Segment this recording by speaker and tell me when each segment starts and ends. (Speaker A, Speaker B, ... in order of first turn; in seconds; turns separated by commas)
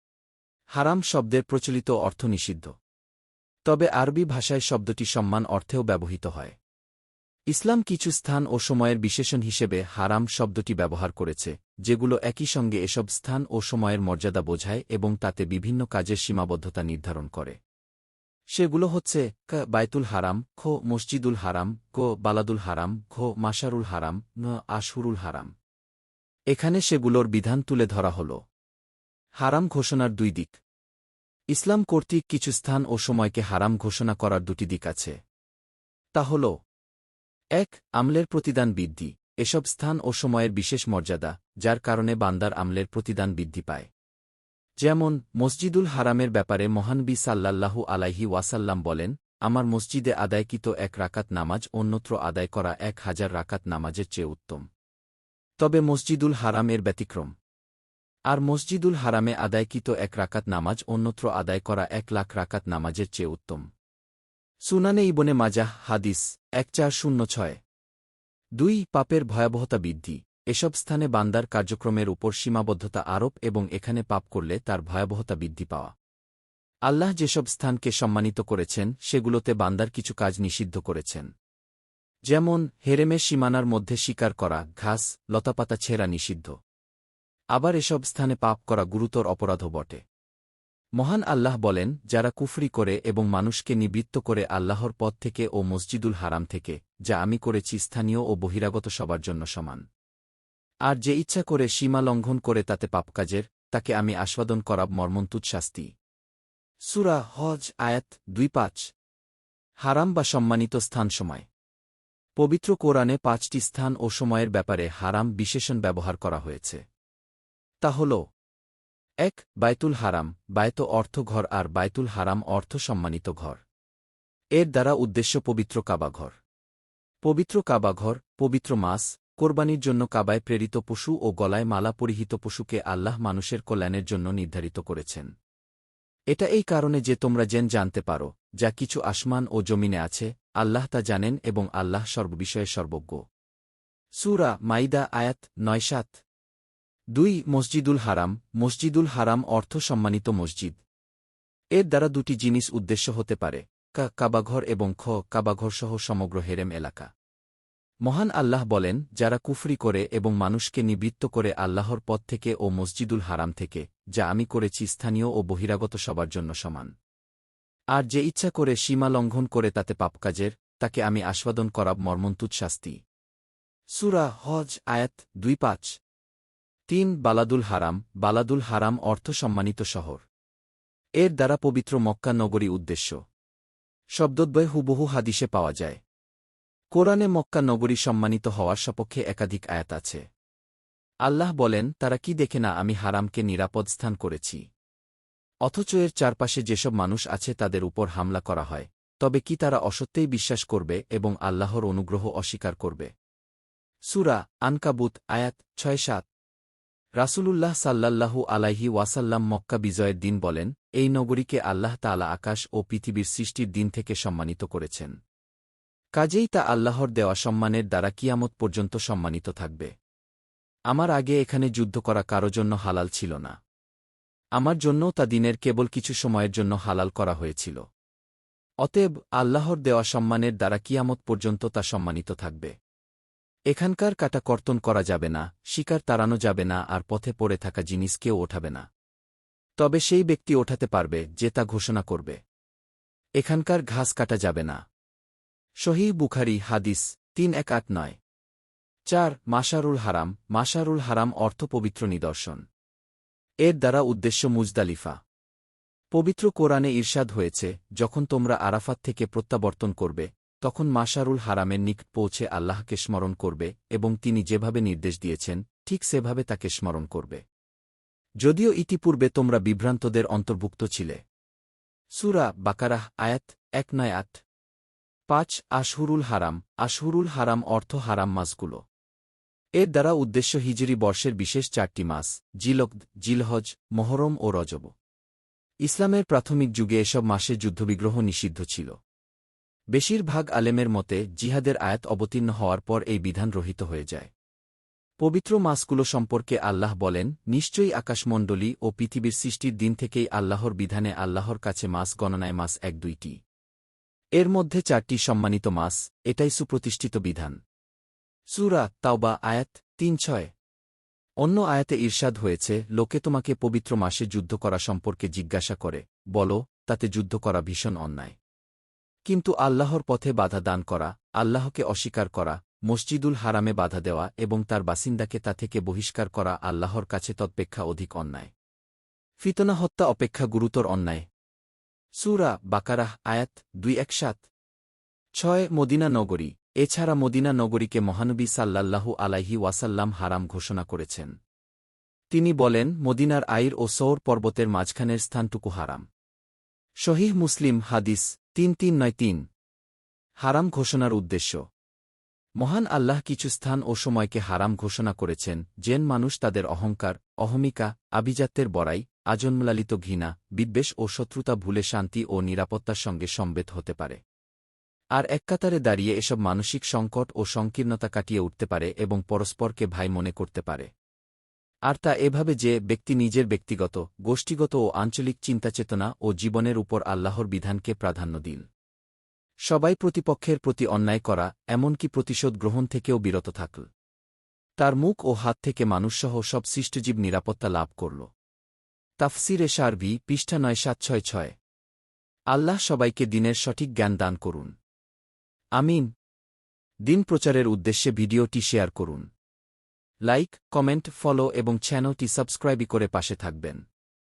Speaker A: 0.8-2.7, Speaker A: 3.7-6.6, Speaker A: 7.5-17.6, Speaker A: 18.5-25.5, Speaker A: 26.5-28.4, Speaker A: 29.4-30.6, Speaker A: 31.5-35.2, Speaker A: 36.2-36.5, Speaker A: 37.6-43.9, Speaker A: 44.8-54.6, Speaker A: 55.6-57.3, Speaker A: 58.3-63.7, Speaker A: 64.7-67.6, Speaker A: 68.6-75.9, Speaker A: 76.9-81.3, Speaker A: 82.3-86.5, Speaker A: 87.5-90.0, Speaker A: 91.0-99.8, Speaker A: 100.9-105.9, Speaker A: 106.9-108.8, Speaker A: 109.8-111.5, Speaker A: 112.4-116.8, Speaker A: 117.8-118.2, Speaker A: 119.2-123.6, Speaker A: 124.6-126.4, Speaker A: 127.2-135.3, Speaker A: 136.3-143.2, Speaker A: 144.2-146.2, Speaker A: 147.1-150.8, Speaker A: 151.8-157.1, Speaker A: 158.1-166.9, Speaker A: 167.9-173.0, Speaker A: 174.0-175.9, Speaker A: 176.9-180.2, Speaker A: 181.2-183.2, Speaker A: 184.2-186.0, Speaker A: 186.9-190.2, Speaker A: 191.2-194.6, Speaker A: 195.7-203.1, Speaker A: 204.1-206.3, Speaker A: 207.2-215.1, Speaker A: 216.2-219.9, Speaker A: 220.9-223.6, Speaker A: 224.6-227.8, Speaker A: 228.8-232.7, Speaker A: 233.7-238.9, Speaker A: 239.8-242.4, Speaker A: 243.4-244.8, Speaker A: 245.8-248.2, Speaker A: 249.1-252.6, Speaker A: 253.6-255.2, Speaker A: 256.1-267.4, Speaker A: 268.4-271.2, Speaker A: 272.2-274.4, Speaker A: 275.3-278.8, Speaker A: 279.8-284.9, Speaker A: 285.9-289.0, Speaker A: 289.9-294.3, Speaker A: 295.2-303.4, Speaker A: 304.4-307.6, Speaker A: 308.5-310.5, Speaker A: 311.4-318.4, Speaker A: 319.3-328.5, Speaker A: 329.4-331.3, Speaker A: 332.2-334.5, Speaker A: 335.4-341.3, Speaker A: 342.3-346.0, Speaker A: 347.0-349.4, Speaker A: 350.4-351.6, Speaker A: 352.6-364.2, Speaker A: 365.1-370.9, Speaker A: 371.9-378.6, Speaker A: 379.7-383.9, Speaker A: 384.8-388.3, Speaker A: 389.2-391.5, Speaker A: 392.5-394.7, Speaker A: 395.8-396.1, Speaker A: 397.1-399.3, Speaker A: 400.3-403.8